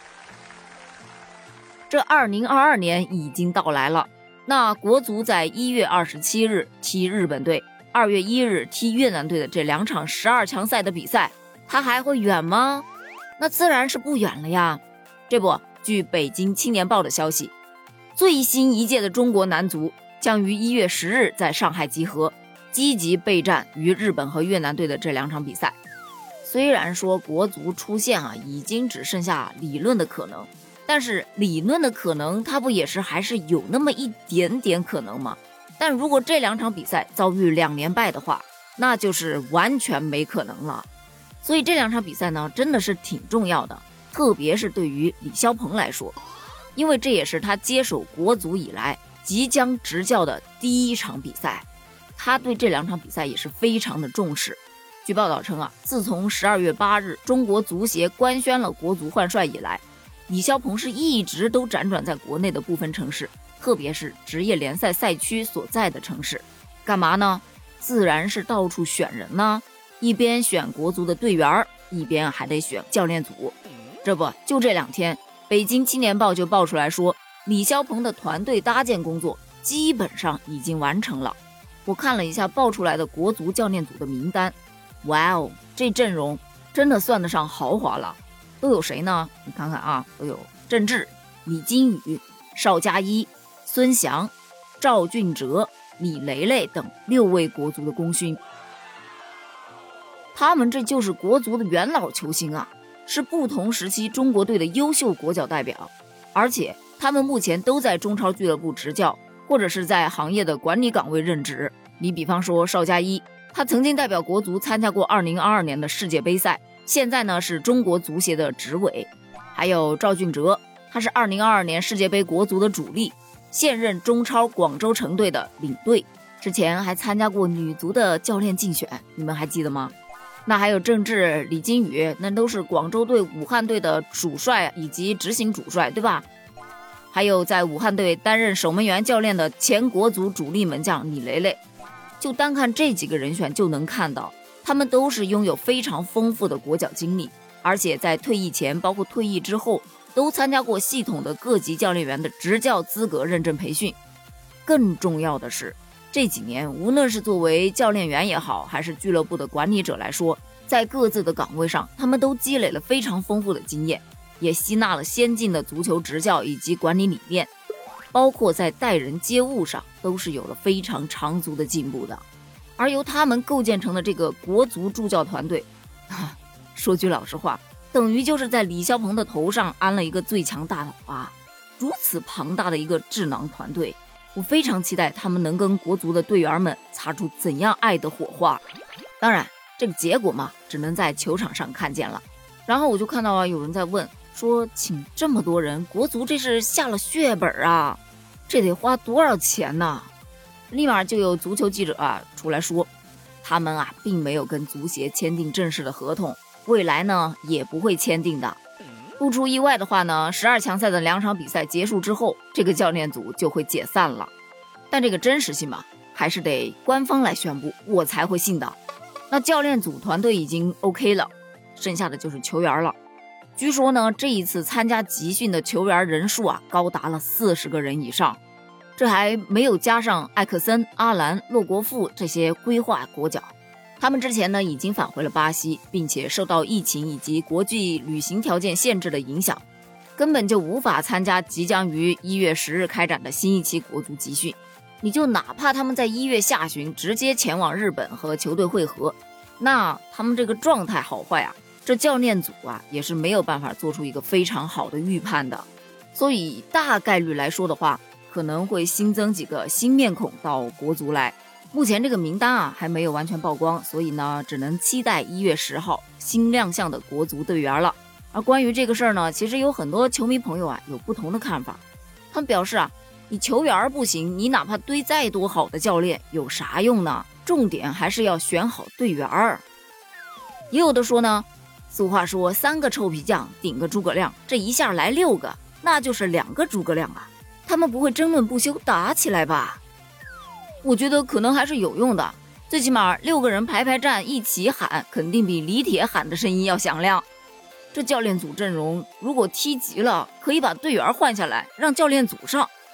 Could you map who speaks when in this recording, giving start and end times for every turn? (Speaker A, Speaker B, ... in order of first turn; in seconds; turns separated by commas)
Speaker A: 1.9-12.8, Speaker A: 13.4-17.5, Speaker A: 18.1-25.8, Speaker A: 26.4-40.9, Speaker A: 41.4-46.1, Speaker A: 46.7-98.4, Speaker A: 100.3-129.9, Speaker A: 130.4-136.2, Speaker A: 137.1-141.6, Speaker A: 142.2-154.0, Speaker A: 154.6-167.5, Speaker A: 168.1-172.2, Speaker A: 172.8-188.6, Speaker A: 189.2-200.1, Speaker A: 200.7-202.9, Speaker A: 203.4-208.6, Speaker A: 209.2-214.3, Speaker A: 214.9-218.8, Speaker A: 219.3-222.9, Speaker A: 223.6-228.4, Speaker A: 229.0-239.6, Speaker A: 240.2-279.6, Speaker A: 280.7-289.8, Speaker A: 290.8-297.2, Speaker A: 297.9-302.7